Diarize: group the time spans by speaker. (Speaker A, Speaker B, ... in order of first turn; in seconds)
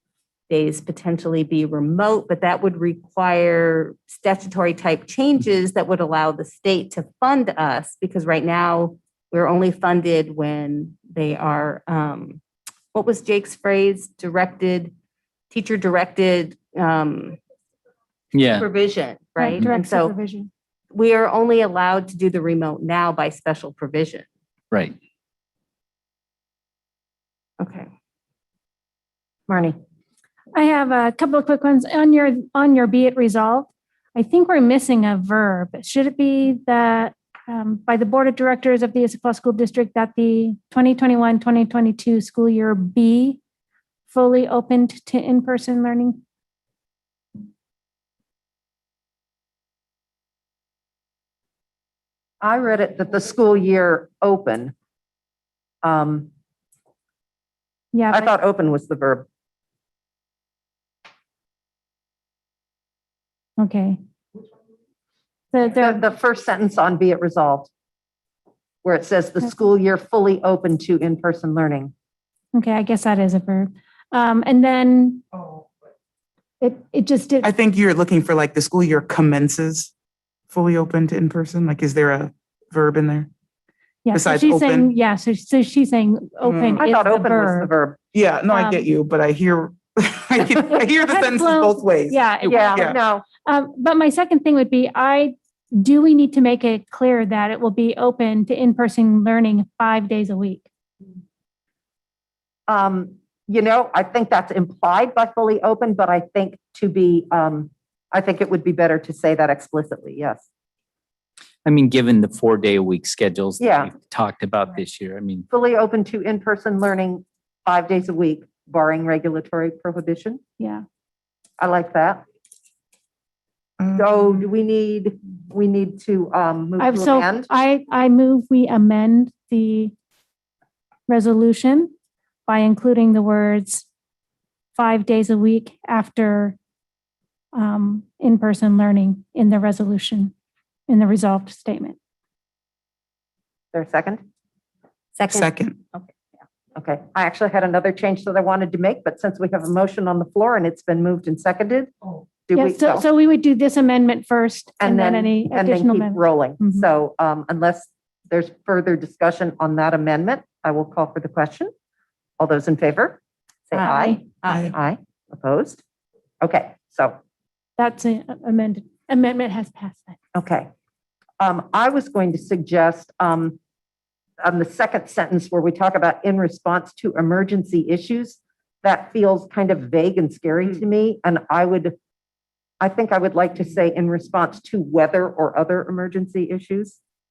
Speaker A: 0.5-12.4, 12.9-14.9, 15.5-17.4, 18.5-20.1, 20.9-24.3, 27.6-27.9, 145.2-146.2, 164.4-164.8
Speaker B: 18.3-18.7, 111.7-115.5
Speaker C: 19.4-20.5, 30.5-43.4, 44.1-46.2, 57.9-58.3, 63.6-64.0, 65.5-66.0, 72.5-75.2, 76.6-77.5, 84.0-87.7, 88.5-88.9, 90.8-100.7, 120.6-120.8, 126.8-129.9, 131.1-131.9, 132.5-133.9, 134.8-136.6, 137.5-140.3, 140.9-142.0, 152.5-156.9, 163.7-164.2, 167.8-170.2
Speaker D: 29.5-29.8, 52.4-54.7, 55.8-56.3, 58.1-59.3, 65.7-67.7, 68.8-71.9, 86.8-88.0, 92.5-93.3, 102.7-110.5, 113.6-113.9, 115.5-120.4, 121.6-122.2, 124.0-127.5, 143.7-144.2, 146.8-151.9, 152.5-153.1, 154.8-161.7, 162.4-165.8, 166.4-167.2, 170.3-170.7, 171.4-173.6, 174.4-181.9, 182.8-187.0
Speaker E: 75.3-75.9, 77.4-79.9, 80.5-83.3, 84.1-84.9, 86.4-86.8, 88.1-93.0, 123.8-124.5, 145.3-145.8